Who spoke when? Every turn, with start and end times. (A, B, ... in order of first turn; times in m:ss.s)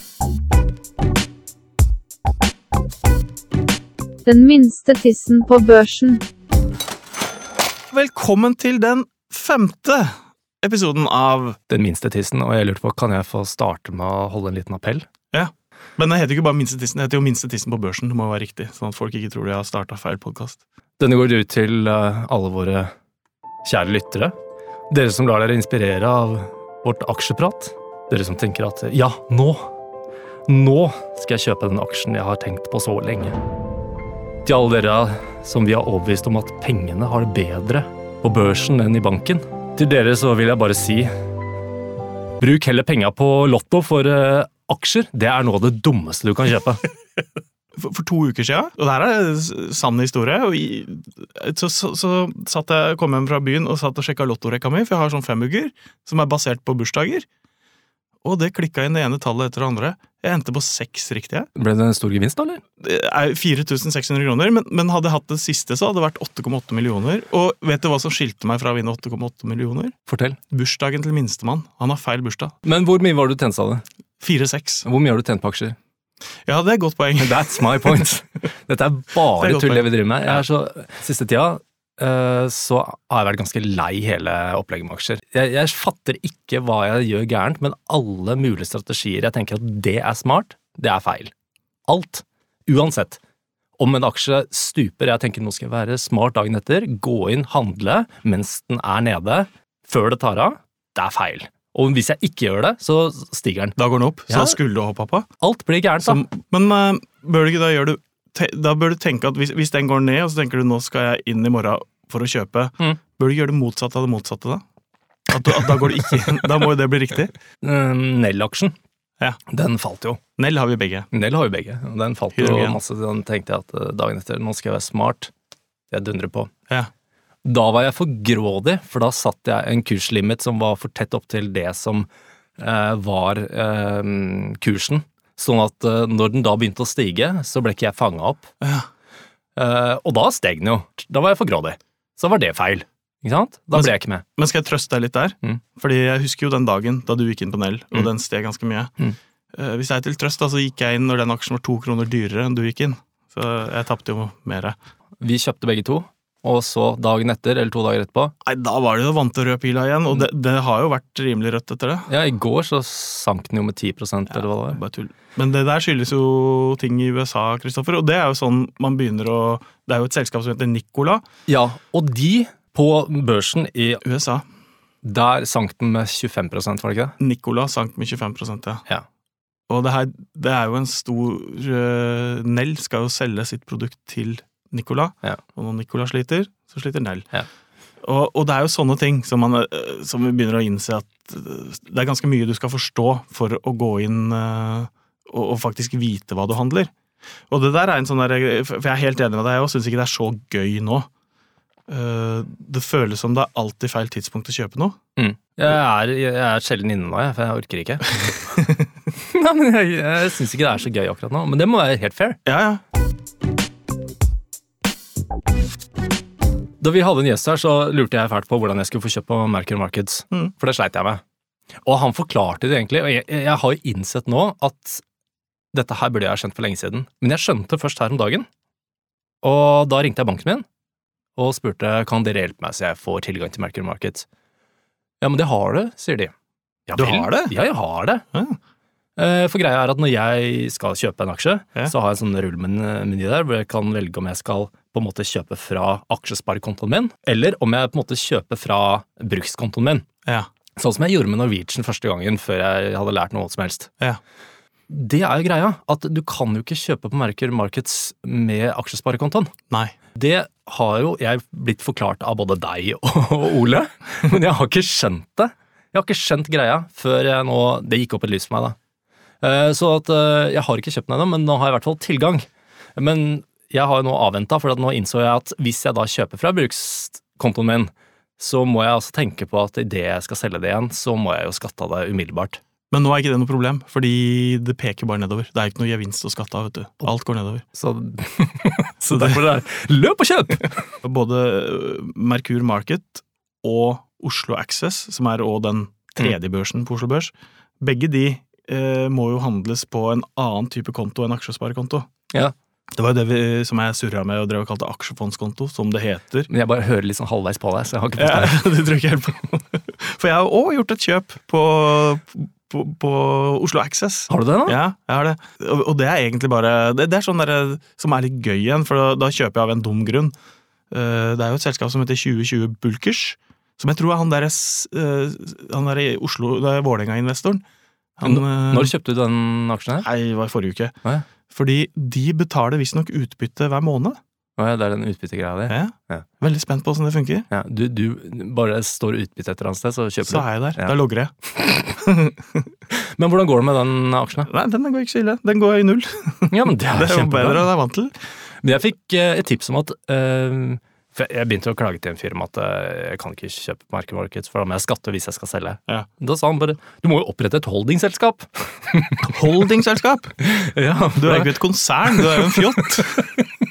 0:04.3-0:06.2 A
0:07.9-0:11.6 B
0:11.7-0:15.0 C
0:15.3-0:20.6 B
0:21.0-0:22.9 C
0:23.6-0:24.4 C
0:24.9-0:29.7 C
0:30.5-0:33.4 C
0:34.4-0:41.1 C
0:42.4-0:46.8 C
0:47.8-0:57.3 B
0:58.2-1:01.5 B
1:01.6-1:02.6 C
1:02.8-1:10.0 B
1:10.1-1:10.4 C
1:10.5-1:12.5 B
1:12.6-1:13.8 C
1:14.2-1:14.9 B
1:14.9-1:15.8 C
1:16.5-1:18.1 B
1:17.2-1:31.3 C
1:19.4-1:20.4 B
1:31.9-1:33.2 C
1:33.8-1:43.8 C
1:43.8-1:45.3 B
1:44.3-1:44.6 C
1:45.4-1:46.2 C
1:46.0-1:54.6 B
1:55.3-1:57.3 B
1:57.6-1:58.8 C
1:59.5-2:00.2 C
2:00.4-2:01.1 B
2:01.1-2:05.3 C
2:02.4-2:02.8 B
2:05.9-2:06.5 C
2:07.4-2:12.1 C
2:12.6-2:18.5 C
2:18.6-2:18.9 B
2:19.6-2:24.2 C
2:23.7-2:28.9 B
2:29.5-2:34.8 B
2:35.2-2:38.3 C
2:38.4-2:42.1 B
2:42.1-2:44.8 C
2:44.4-2:51.3 B
2:51.5-2:54.0 C
2:54.0-2:54.4 B
2:55.0-2:57.2 C
2:57.2-2:58.8 B
2:59.7-3:07.3 B
3:08.0-3:16.9 B
3:17.5-3:21.1 B
3:21.9-3:25.0 B
3:25.2-3:28.2 C
3:28.6-3:28.8 B
3:29.2-3:32.4 C
3:32.5-3:32.8 B
3:36.8-3:41.2 C
3:41.8-3:45.0 C
3:45.7-3:48.5 C
3:49.4-3:50.6 C
3:51.4-3:54.3 C
3:55.2-3:56.3 C
3:56.9-3:58.2 C
3:57.0-3:57.5 B
3:59.2-4:10.1 C
4:10.8-4:13.9 C
4:14.9-4:19.5 C
4:19.7-4:20.0 B
4:20.1-4:28.8 C
4:29.4-4:42.6 C
4:42.9-4:47.6 B
4:47.7-4:50.8 C
4:49.1-4:49.4 B
4:51.0-5:02.1 B
5:02.9-5:06.5 B
5:06.5-5:08.6 C
5:08.2-5:20.3 B
5:14.3-5:14.8 C
5:20.9-5:27.6 B
5:28.2-5:28.9 B
5:28.2-5:30.1 C
5:30.0-5:30.9 B
5:31.5-5:34.2 B
5:34.6-5:36.2 C
5:35.7-5:37.5 B
5:37.5-5:41.0 C
5:40.2-5:42.7 B
5:42.9-5:44.5 C
5:44.5-5:48.1 B
5:46.5-5:47.7 C
5:48.6-5:59.3 C
5:59.2-6:00.4 B
6:00.4-6:01.6 C
6:01.2-6:03.3 B
6:02.1-6:03.5 C